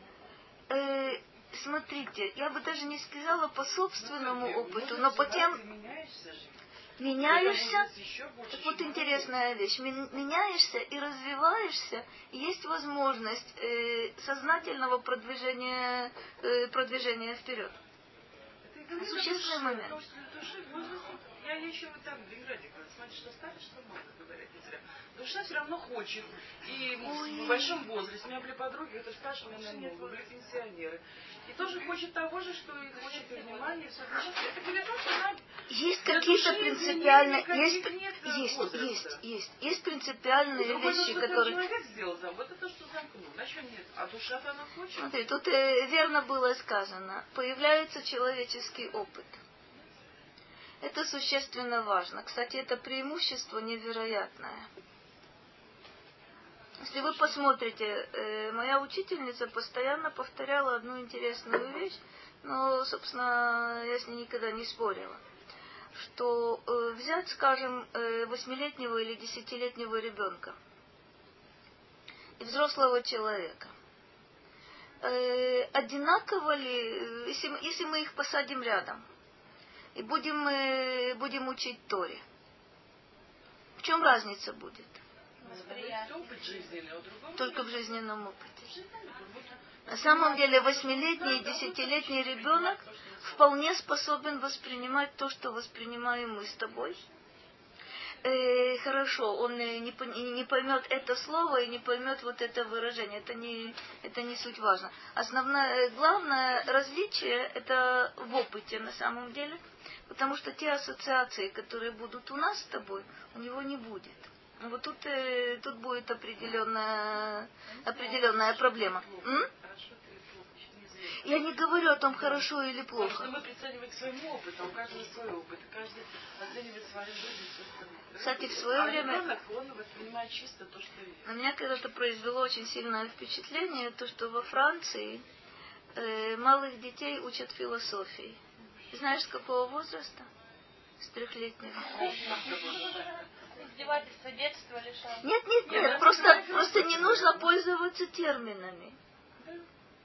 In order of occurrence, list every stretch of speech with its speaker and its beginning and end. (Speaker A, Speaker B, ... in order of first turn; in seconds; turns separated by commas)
Speaker A: 0.7-5.6, Speaker B: 4.0-9.3, Speaker A: 7.0-7.9, Speaker A: 8.5-17.8, Speaker B: 18.6-35.4, Speaker A: 18.9-20.0, Speaker A: 27.0-27.8, Speaker A: 35.7-41.6, Speaker B: 36.0-39.2, Speaker B: 40.5-45.1, Speaker A: 45.0-49.4, Speaker A: 50.8-54.7, Speaker A: 56.8-65.2, Speaker A: 65.9-70.6, Speaker A: 72.4-73.7, Speaker A: 75.0-79.0, Speaker A: 79.9-82.2, Speaker A: 83.8-85.0, Speaker C: 85.4-86.3, Speaker B: 85.4-87.7, Speaker A: 87.3-88.7, Speaker B: 88.6-89.6, Speaker A: 89.8-97.0, Speaker B: 90.3-93.4, Speaker A: 98.2-119.5, Speaker B: 117.8-121.5, Speaker A: 121.2-123.3, Speaker B: 122.1-131.3, Speaker A: 128.2-129.3, Speaker A: 131.2-135.2, Speaker A: 135.9-138.4, Speaker A: 138.9-140.3, Speaker A: 141.0-142.1, Speaker B: 141.9-143.1, Speaker C: 141.9-146.6, Speaker A: 145.2-149.0, Speaker B: 145.7-147.3